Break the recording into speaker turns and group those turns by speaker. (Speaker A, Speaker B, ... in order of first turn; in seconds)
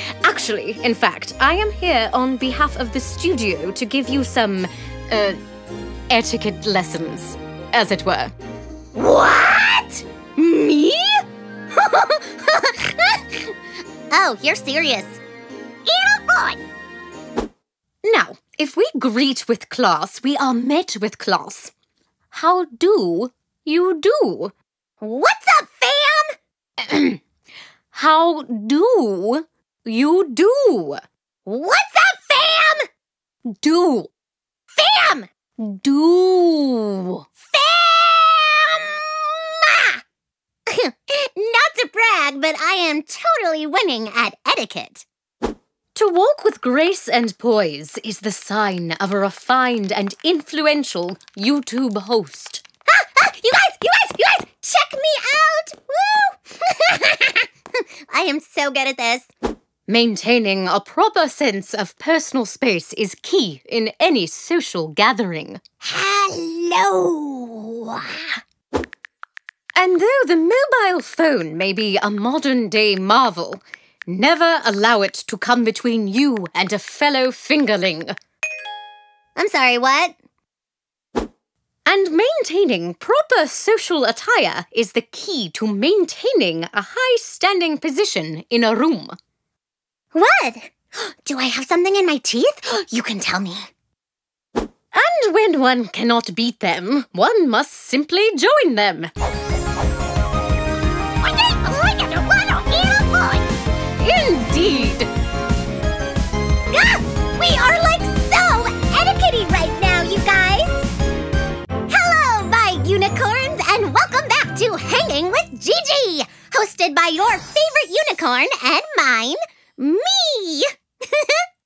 Speaker A: 0.2-5.4, 6.1-8.3, 18.1-21.7, 22.3-24.5, 27.9-31.0, 33.6-34.0, 36.3-37.1, 45.9-52.6, 59.9-65.6, 69.8-78.1, 81.9-89.1, 94.9-99.1, 104.0-105.1
Speaker B: 8.9-11.1, 11.7-13.2, 14.1-15.2, 15.8-16.6, 25.0-27.2, 31.4-32.9, 33.6-34.0, 34.7-36.8, 37.4-40.0, 40.7-45.0, 52.9-59.3, 65.8-68.4, 79.3-80.2, 90.1-93.7, 101.2-103.5, 106.7-110.9, 111.9-121.4